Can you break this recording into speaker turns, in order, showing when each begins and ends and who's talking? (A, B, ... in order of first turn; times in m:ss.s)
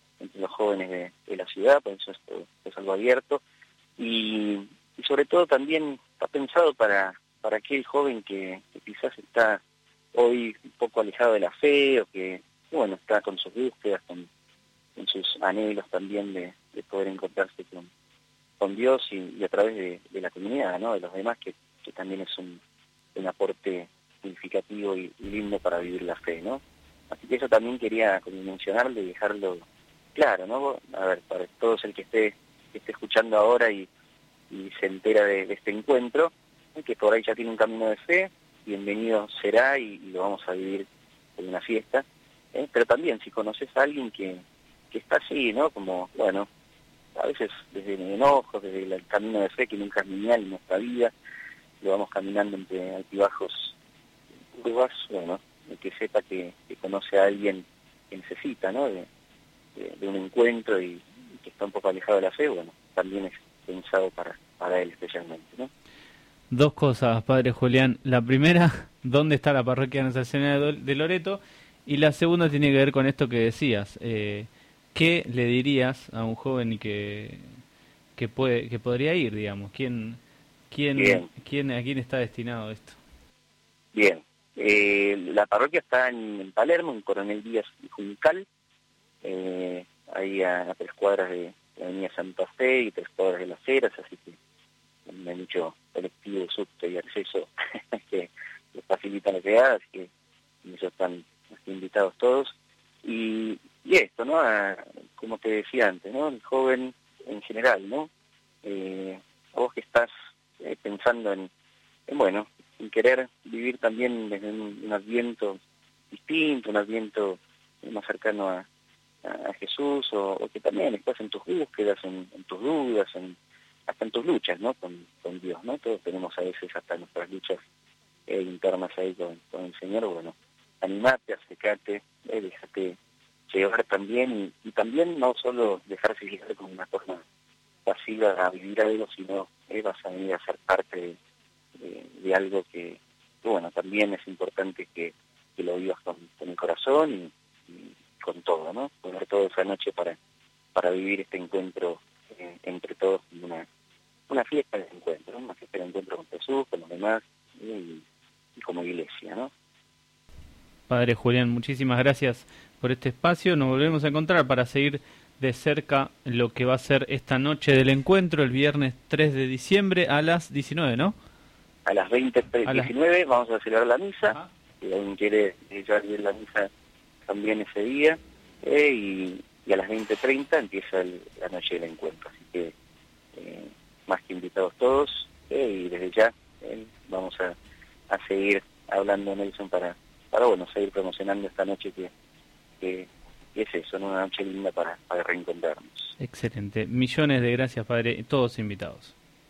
0:00.2-0:03.4 A
0:04.0-0:09.6 A
0:10.1-0:14.3 A
0:15.0-0:17.9 A
0:18.6-0:22.6 A
0:23.1-0:33.9 A
0:34.5-0:46.5 A
0:47.1-0:51.1 A
0:51.8-0:53.7 A
0:54.5-0:59.1 A
0:59.8-1:05.7 A
1:06.5-1:17.5 B
1:18.2-1:20.2 B
1:20.7-1:23.0 B
1:21.0-1:21.3 A
1:23.9-1:28.5 A
1:29.2-1:34.4 A
1:35.1-1:40.1 A
1:40.6-1:48.1 A
1:48.6-1:51.5 A
1:52.1-1:55.6 A
1:56.1-1:58.6 A
1:59.2-2:07.6 A
2:08.3-2:13.0 A
2:13.5-2:17.2 A
2:17.8-2:21.2 A
2:21.8-2:30.2 A
2:30.7-2:33.7 A
2:34.3-2:38.0 A
2:38.6-2:39.5 A
2:40.9-2:51.2 B
2:51.8-2:56.7 A
2:52.6-2:52.9 B
2:57.2-3:02.7 A
3:03.3-3:07.6 A
3:08.1-3:12.1 A
3:12.8-3:16.1 A
3:16.2-3:19.1 B